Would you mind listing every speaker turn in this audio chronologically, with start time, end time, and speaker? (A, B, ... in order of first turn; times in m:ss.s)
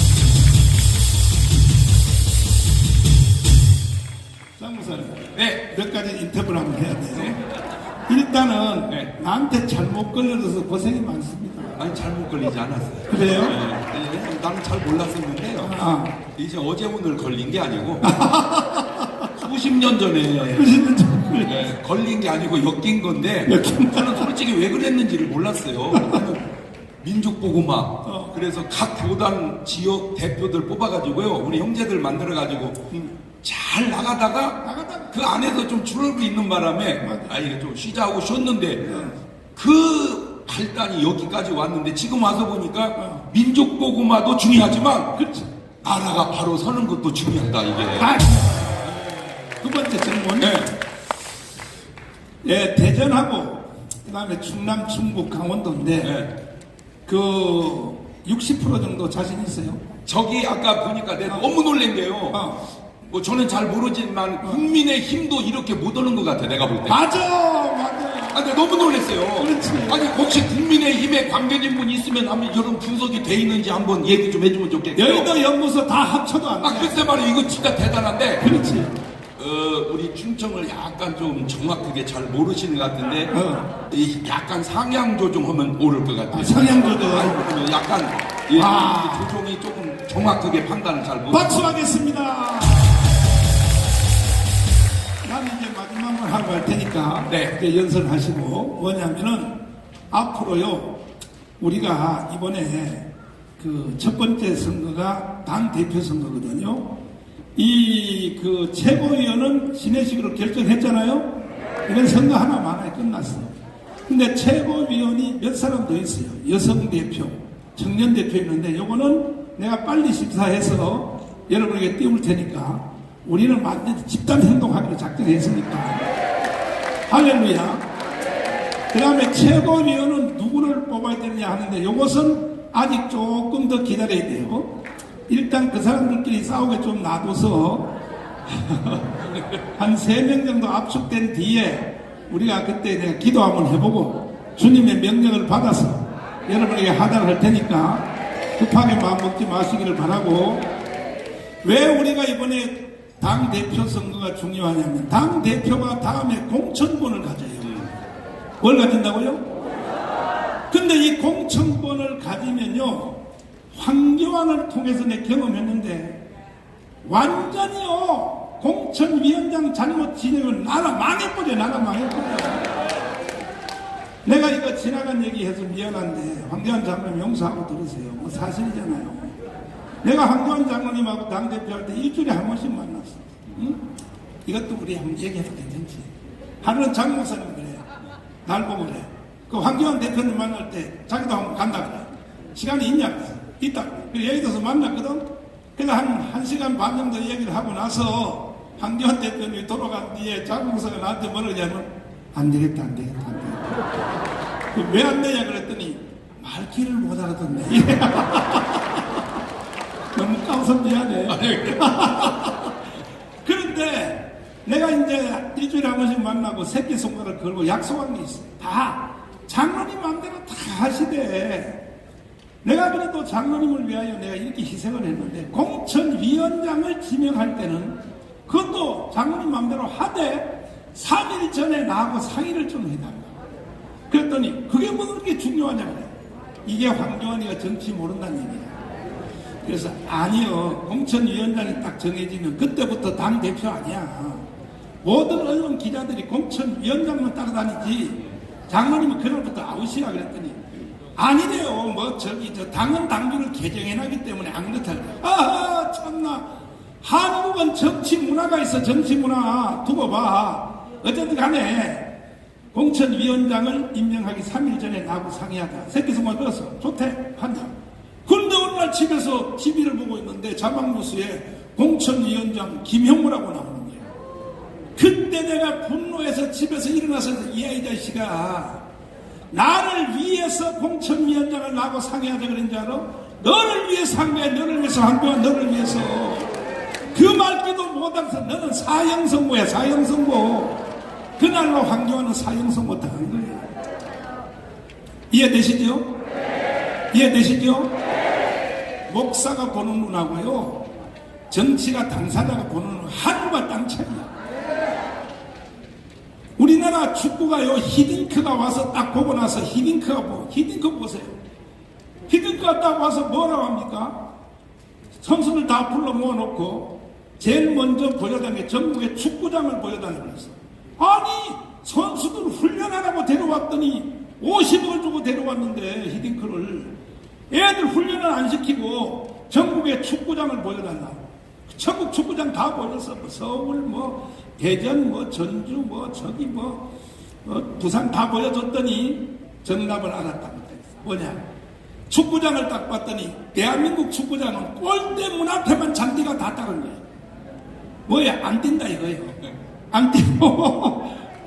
0:04.6-0:07.4 A
0:05.3-0:05.6 B
0:08.1-0:11.8 A
0:11.8-0:18.3 B
0:13.1-0:13.6 A
0:15.6-0:16.2 A
0:18.0-0:19.3 A
0:19.3-0:20.7 B
0:20.5-0:21.6 A
0:21.4-0:26.4 B
0:23.5-0:24.3 A
0:25.9-0:26.2 A
0:27.0-0:32.8 B
0:28.0-0:28.3 A
0:33.4-0:38.9 B
0:34.6-0:35.1 A
0:37.0-0:37.4 A
0:38.8-0:39.2 A
0:39.5-0:45.1 B
0:43.0-0:43.3 A
0:45.1-0:45.5 A
0:45.8-0:48.2 B
0:48.0-0:49.0 A
0:49.6-0:50.7 A
0:50.4-0:50.7 B
0:52.4-0:56.2 A
0:56.0-0:56.3 B
0:57.0-0:59.8 A
1:00.0-1:02.5 B
1:02.3-1:02.6 A
1:03.0-1:07.0 B
1:06.9-1:08.4 A
1:08.3-1:15.3 B
1:09.4-1:10.0 A
1:14.9-1:17.1 A
1:16.6-1:18.5 B
1:18.4-1:18.9 A
1:19.4-1:23.3 B
1:23.3-1:23.7 A
1:23.9-1:31.7 B
1:26.3-1:27.4 A
1:28.5-1:29.3 A
1:31.3-1:33.0 A
1:35.2-1:39.6 A
1:37.3-1:37.5 B
1:40.1-1:41.0 A
1:41.6-1:46.9 A
1:47.6-1:51.3 A
1:51.8-1:53.5 A
1:54.1-2:06.1 A
2:07.1-2:07.9 A
2:08.9-2:14.8 A
2:15.3-2:17.9 A
2:18.5-2:19.1 A
2:19.7-2:30.7 A
2:31.6-2:37.7 A
2:37.6-2:37.9 B
2:38.6-2:39.4 A
2:40.7-2:46.2 A
2:47.0-2:52.7 A
2:54.2-2:59.3 A
3:00.0-3:03.8 A
3:04.4-3:06.1 A
3:06.6-3:07.9 A
3:08.4-3:23.7 A
3:24.7-3:29.0 A
3:30.1-3:32.7 A
3:31.3-3:32.3 B
3:33.4-3:41.8 A
3:42.6-3:53.3 A
3:54.1-3:56.1 A
3:56.6-3:58.7 A
3:59.6-4:04.4 A
4:05.0-4:10.6 A
4:11.1-4:16.4 A
4:17.0-4:22.1 A
4:22.7-4:27.7 A
4:28.2-4:34.0 A
4:35.0-4:38.8 A
4:39.5-4:46.5 A
4:47.1-4:50.8 A
4:51.4-4:53.7 A
4:55.3-4:56.1 A
4:57.1-4:57.9 A
4:59.1-5:00.8 A
5:01.5-5:04.3 A
5:06.6-5:11.4 A
5:12.3-5:14.2 A
5:15.2-5:26.9 A
5:27.5-5:36.9 A
5:37.4-5:41.4 A
5:42.1-5:47.0 A
5:48.1-5:51.2 A